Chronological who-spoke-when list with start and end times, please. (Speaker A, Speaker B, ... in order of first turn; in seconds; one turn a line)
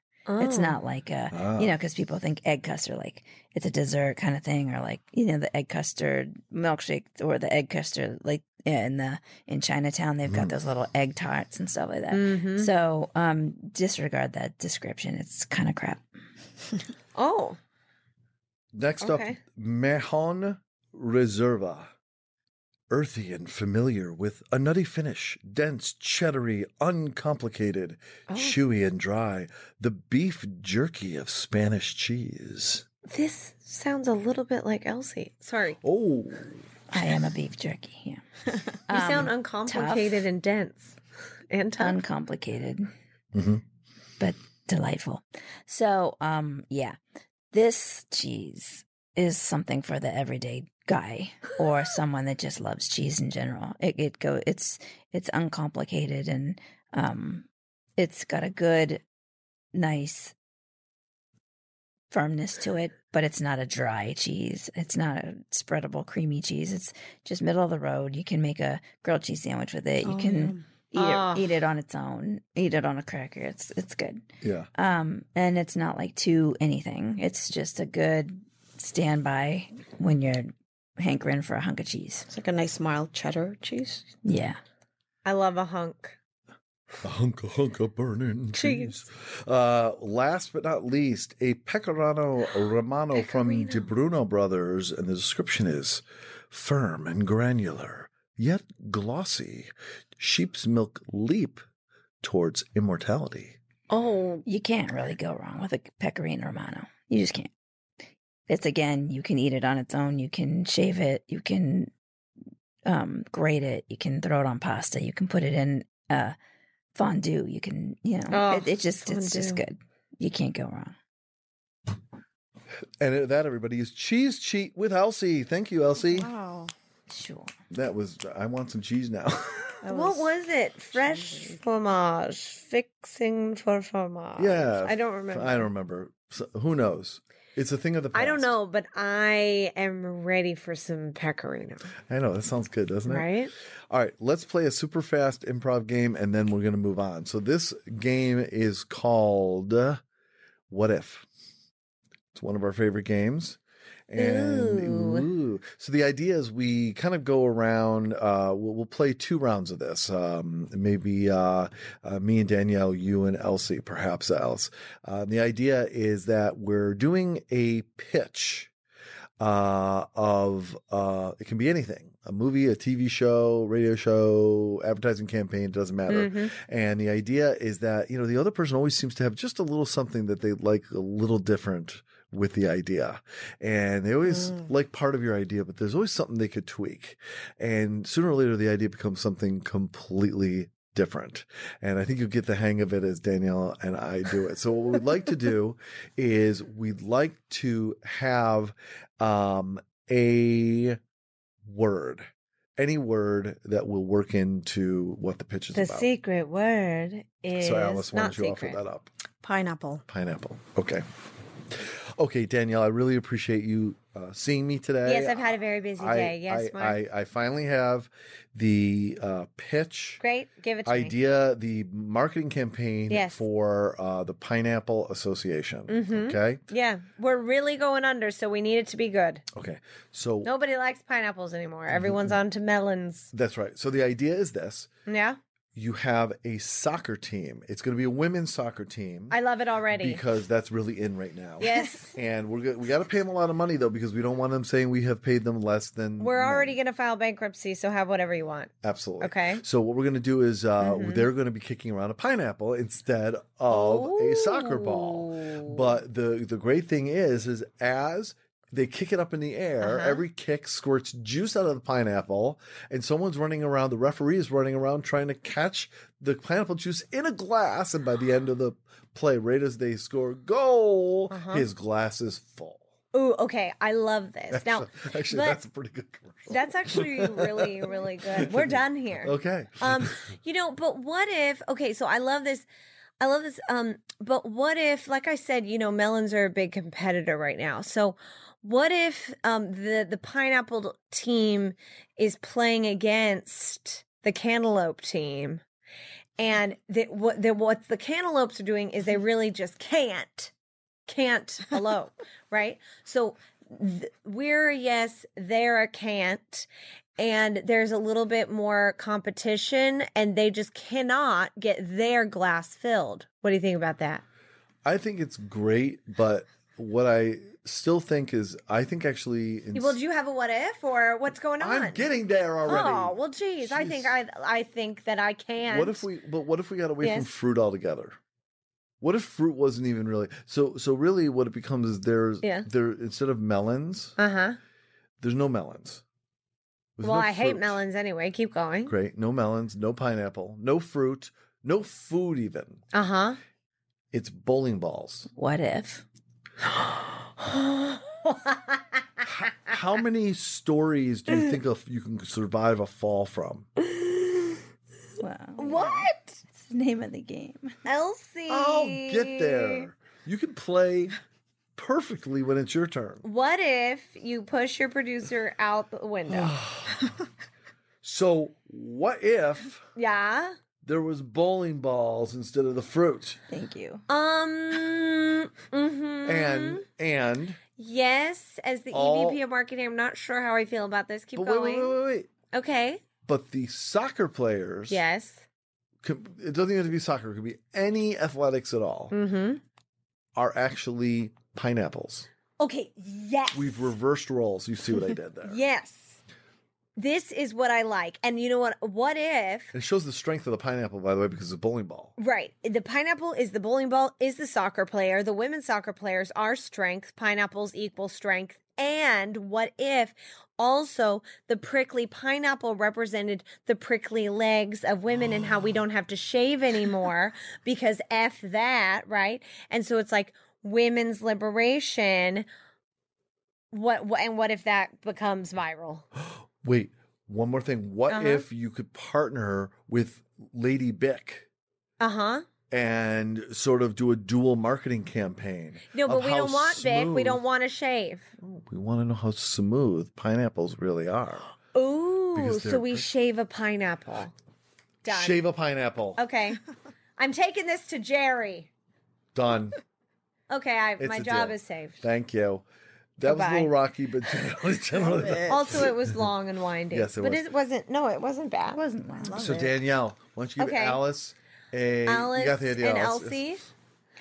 Speaker A: 0.3-0.8
Speaker B: 0.4-16.0
Speaker C: 1.3-1.8
Speaker C: 10.3-10.6
Speaker A: 12.1-12.7
Speaker A: 17.1-17.6
Speaker C: 18.7-21.9
Speaker A: 19.0-19.4
Speaker C: 22.9-32.9
Speaker A: 28.3-28.6
Speaker A: 33.1-35.8
Speaker C: 35.8-36.6
Speaker B: 36.9-38.2
Speaker B: 38.9-40.3
Speaker A: 38.9-41.0
Speaker A: 41.5-42.0
Speaker B: 41.8-42.9
Speaker C: 43.3-43.6
Speaker B: 44.2-47.0
Speaker B: 47.5-59.0
Speaker B: 59.7-60.3
Speaker B: 62.1-74.2
Speaker D: 70.0-70.6
Speaker A: 71.0-71.5
Speaker C: 74.4-74.7
Speaker B: 74.8-82.3
Speaker D: 82.3-84.1
Speaker B: 84.2-84.6
Speaker A: 85.2-86.2
Speaker C: 87.0-101.6
Speaker A: 88.5-88.9
Speaker A: 93.1-93.9
Speaker C: 102.2-103.6
Speaker A: 103.9-104.4
Speaker B: 104.5-107.5
Speaker B: 108.5-111.9
Speaker B: 112.8-116.4
Speaker B: 117.0-121.0
Speaker A: 118.3-119.6
Speaker C: 123.0-126.3
Speaker D: 126.0-126.7
Speaker B: 127.1-127.5
Speaker C: 127.7-129.8
Speaker D: 129.8-130.3
Speaker A: 129.9-135.7
Speaker D: 130.9-131.6
Speaker C: 134.4-138.6
Speaker A: 138.1-141.9
Speaker C: 142.1-143.3
Speaker A: 143.1-143.5
Speaker C: 143.9-150.0
Speaker C: 150.7-151.3
Speaker C: 152.3-168.7
Speaker A: 154.2-155.3
Speaker C: 169.4-201.0
Speaker A: 176.1-176.5
Speaker D: 184.3-184.7
Speaker C: 201.7-206.1
Speaker A: 205.7-208.8
Speaker C: 207.6-209.1
Speaker D: 209.4-210.1
Speaker C: 210.1-211.1
Speaker C: 211.7-220.2
Speaker A: 215.1-217.0
Speaker A: 220.2-221.1
Speaker C: 220.9-226.6
Speaker A: 223.1-223.4
Speaker A: 225.9-229.4
Speaker C: 229.5-230.5
Speaker A: 230.4-233.3
Speaker C: 231.9-232.4
Speaker C: 233.3-234.9
Speaker A: 235.1-235.4
Speaker C: 235.8-239.4
Speaker A: 239.3-240.2
Speaker C: 239.9-246.8
Speaker A: 241.6-242.2
Speaker A: 246.2-249.6
Speaker C: 248.8-272.8
Speaker A: 250.8-251.3
Speaker A: 253.7-255.8
Speaker A: 259.8-260.2
Speaker A: 271.3-271.7
Speaker A: 273.1-275.6
Speaker C: 274.5-280.2
Speaker A: 276.5-282.7
Speaker A: 283.2-295.6
Speaker A: 296.4-300.5
Speaker A: 301.1-306.7
Speaker A: 307.2-314.2
Speaker C: 314.9-320.0
Speaker A: 319.7-322.1
Speaker C: 321.6-324.1
Speaker A: 322.7-326.1
Speaker C: 325.7-328.2
Speaker A: 327.0-327.3
Speaker C: 329.0-334.1
Speaker A: 332.4-332.7
Speaker A: 334.2-334.6
Speaker C: 335.2-336.0
Speaker C: 337.0-337.8
Speaker A: 337.0-338.9
Speaker C: 338.9-342.8
Speaker A: 342.9-343.4
Speaker C: 344.1-345.3
Speaker B: 345.4-346.1
Speaker A: 347.5-348.8
Speaker C: 349.3-353.7
Speaker B: 355.2-357.8
Speaker A: 355.6-356.4
Speaker A: 357.9-359.9
Speaker C: 358.5-361.2
Speaker C: 361.8-363.2
Speaker A: 363.2-366.6
Speaker C: 366.3-367.1
Speaker C: 368.0-369.8
Speaker A: 370.0-370.6
Speaker C: 370.8-373.4
Speaker B: 373.5-374.0
Speaker A: 374.1-376.9
Speaker C: 376.2-377.6
Speaker A: 377.8-382.0
Speaker C: 378.9-379.4
Speaker C: 381.4-382.3
Speaker A: 382.5-383.0
Speaker C: 383.3-385.0
Speaker A: 384.9-385.4
Speaker C: 386.0-389.1
Speaker A: 389.1-389.6
Speaker C: 390.4-392.3
Speaker A: 392.6-393.8
Speaker C: 393.5-395.6
Speaker A: 395.4-396.2
Speaker A: 397.0-399.7
Speaker C: 399.7-402.1
Speaker A: 402.2-422.5
Speaker A: 423.7-426.1
Speaker C: 426.2-431.5
Speaker A: 428.1-428.5
Speaker A: 432.0-432.5
Speaker C: 432.7-437.4
Speaker A: 435.9-438.3
Speaker C: 438.4-441.5
Speaker A: 441.7-444.3
Speaker C: 442.3-443.1
Speaker A: 445.0-445.4
Speaker C: 445.1-446.2
Speaker A: 446.2-446.6
Speaker A: 447.2-448.7
Speaker C: 449.3-449.8
Speaker A: 450.5-452.0
Speaker C: 451.0-452.6
Speaker C: 453.2-456.3
Speaker A: 453.2-453.7
Speaker D: 455.0-455.6
Speaker A: 455.5-458.8
Speaker C: 456.9-457.5
Speaker B: 458.7-459.4
Speaker D: 459.2-459.8
Speaker C: 459.4-463.4
Speaker A: 460.6-461.0
Speaker A: 462.1-463.6